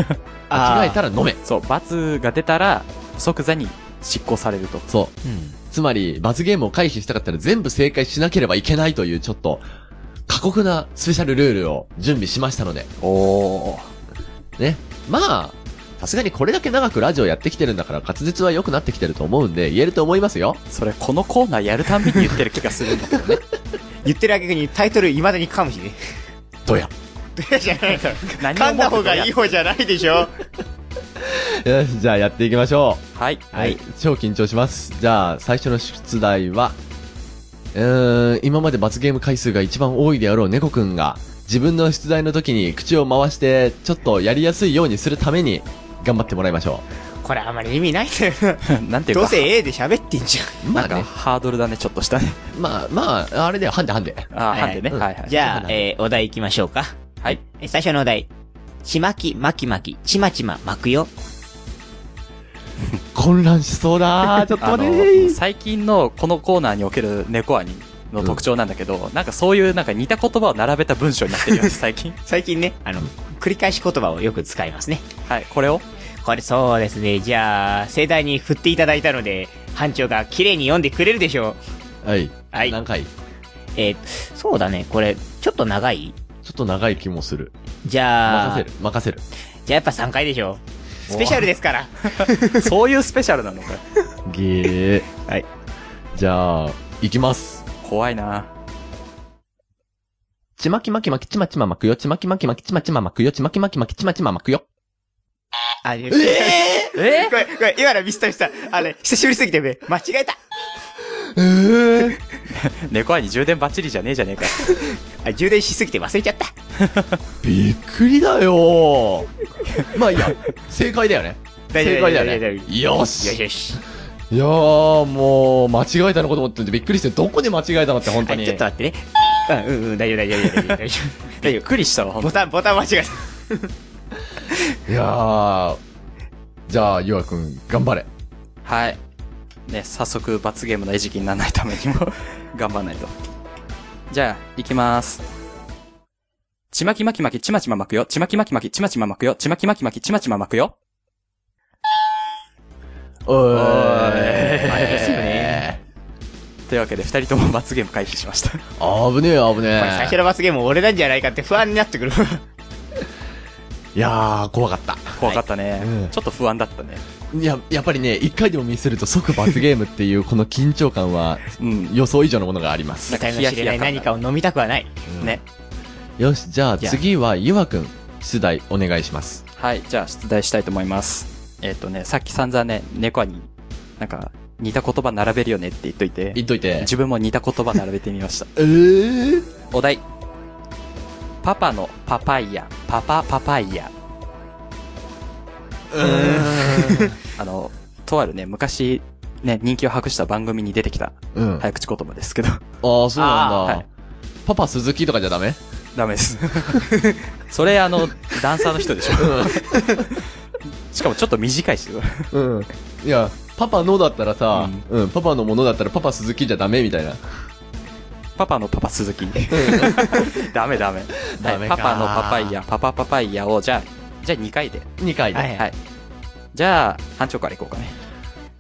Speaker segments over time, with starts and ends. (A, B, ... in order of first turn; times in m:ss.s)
0:00.5-0:01.0 A
0:00.5-0:01.4 B
0:01.4-0:04.9 C
0:04.9-0:05.1 B
0:05.2-0:05.6 A
0:05.7-0:09.6 B
0:10.3-0:12.9 B
0:13.0-0:13.9 C
0:14.6-0:20.6 B
0:20.7-0:23.4 C
0:24.0-0:26.0 A
0:26.7-0:26.9 B
0:27.4-0:30.4 A
0:28.4-0:29.4 C
0:31.2-0:33.0 B
0:33.2-0:33.5 C
0:33.5-0:33.8 A
0:33.6-0:36.8 B
0:37.7-0:46.8 B
0:47.2-0:50.6 A
0:48.6-0:49.5 C
0:50.6-0:51.1 B
0:50.8-0:52.4 C
0:52.5-0:54.3 B
0:54.3-0:55.4 C
0:54.5-0:58.3 A
0:54.9-0:55.8 B
0:58.8-1:01.1 A
1:03.2-1:05.4 B
1:04.3-1:12.2 C
1:12.3-1:15.0 A
1:15.3-1:15.8 C
1:16.2-1:21.6 A
1:22.0-1:23.1 B
1:23.8-1:26.2 A
1:26.4-1:27.5 B
1:27.8-1:28.7 A
1:28.3-1:29.2 B
1:29.7-1:32.7 A
1:31.1-1:31.4 C
1:32.2-1:33.8 C
1:34.2-1:35.1 B
1:36.1-1:37.6 B
1:37.8-1:38.5 C
1:40.6-1:44.6 B
1:45.8-1:50.4 A
1:46.1-1:46.9 B
1:47.0-1:47.4 C
1:51.2-1:52.2 B
1:52.5-1:54.8 C
1:54.6-1:56.5 A
1:57.4-1:59.3 B
1:59.9-2:03.4 B
2:01.7-2:03.8 A
2:04.3-2:08.6 B
2:08.2-2:11.6 A
2:11.4-2:12.4 C
2:12.2-2:13.7 A
2:14.9-2:15.8 B
2:16.7-2:18.1 B
2:18.6-2:19.0 C
2:19.7-2:23.1 C
2:24.1-2:25.2 C
2:26.7-2:30.7 C
2:33.3-2:35.8 B
2:33.5-2:35.4 C
2:34.7-2:35.6 A
2:36.7-2:38.6 C
2:38.8-2:40.2 B
2:39.8-2:42.4 A
2:44.0-2:46.1 B
2:45.2-2:47.0 C
2:47.3-2:53.2 B
2:51.6-2:52.0 C
2:53.1-2:54.1 C
2:53.1-2:54.9 A
2:55.1-2:55.4 B
2:56.2-2:59.4 B
2:59.6-3:03.5 C
3:04.0-3:08.5 C
3:06.4-3:06.9 B
3:08.6-3:09.5 B
3:09.7-3:10.0 C
3:11.4-3:13.9 C
3:15.9-3:17.2 B
3:16.0-3:17.1 A
3:17.3-3:22.6 C
3:21.3-3:21.7 B
3:22.8-3:23.8 B
3:23.2-3:23.8 A
3:24.5-3:25.6 B
3:26.0-3:30.2 C
3:29.2-3:30.0 B
3:30.9-3:32.3 C
3:32.3-3:37.2 B
3:34.5-3:34.8 C
3:38.4-3:44.9 C
3:39.5-3:40.0 B
3:39.8-3:40.2 A
3:41.3-3:42.6 B
3:45.0-3:45.5 B
3:45.3-3:45.7 A
3:46.5-3:48.0 C